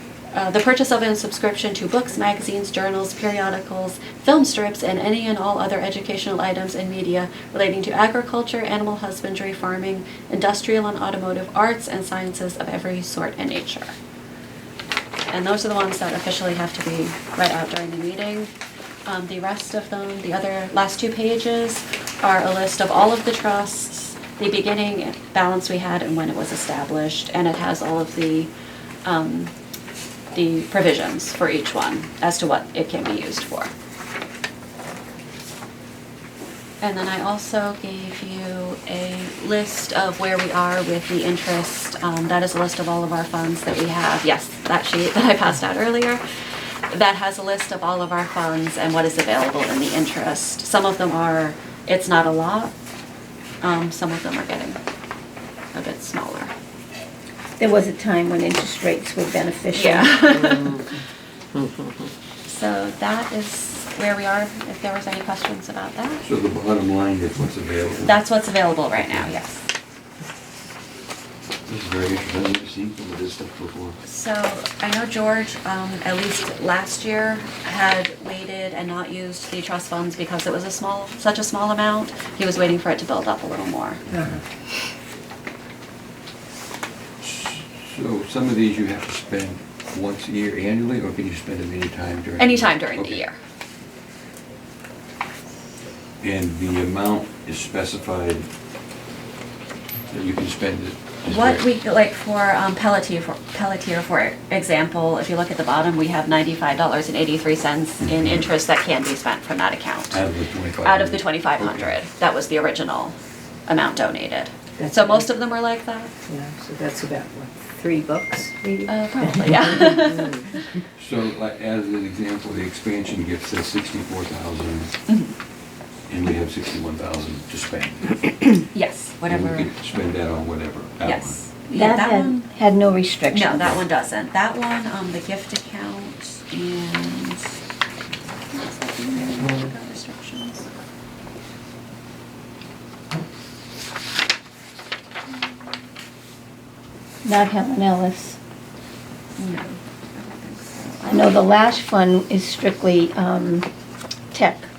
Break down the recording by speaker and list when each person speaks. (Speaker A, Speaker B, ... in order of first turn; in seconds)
Speaker A: 0.3-13.9, 15.3-18.5, 19.1-28.5, 29.1-29.5, 30.3-33.7, 36.8-46.2, 46.9-52.7, 53.6-54.8, 55.7-56.5, 59.7-60.9, 62.5-66.2, 68.0-69.6, 74.0-84.0, 92.4-93.4, 101.2-110.2, 110.8-113.2, 113.7-116.1, 118.9-120.6, 125.1-125.3, 128.7-129.7, 131.1-132.5, 133.3-137.6, 138.5-140.7, 149.4-151.4
Speaker B: 57.6-60.3, 131.7-133.8, 147.2-148.4, 151.1-153.7, 154.3-154.7
Speaker C: 60.3-60.9, 61.6-62.1, 84.1-84.4, 114.8-115.2, 116.3-120.5
Speaker D: 66.2-68.2, 69.0-69.3, 71.7-74.0, 87.2-93.2, 96.2-98.5, 100.1-101.7, 108.0-108.5, 110.1-112.0, 121.0-124.9, 126.1-128.7, 129.3-131.4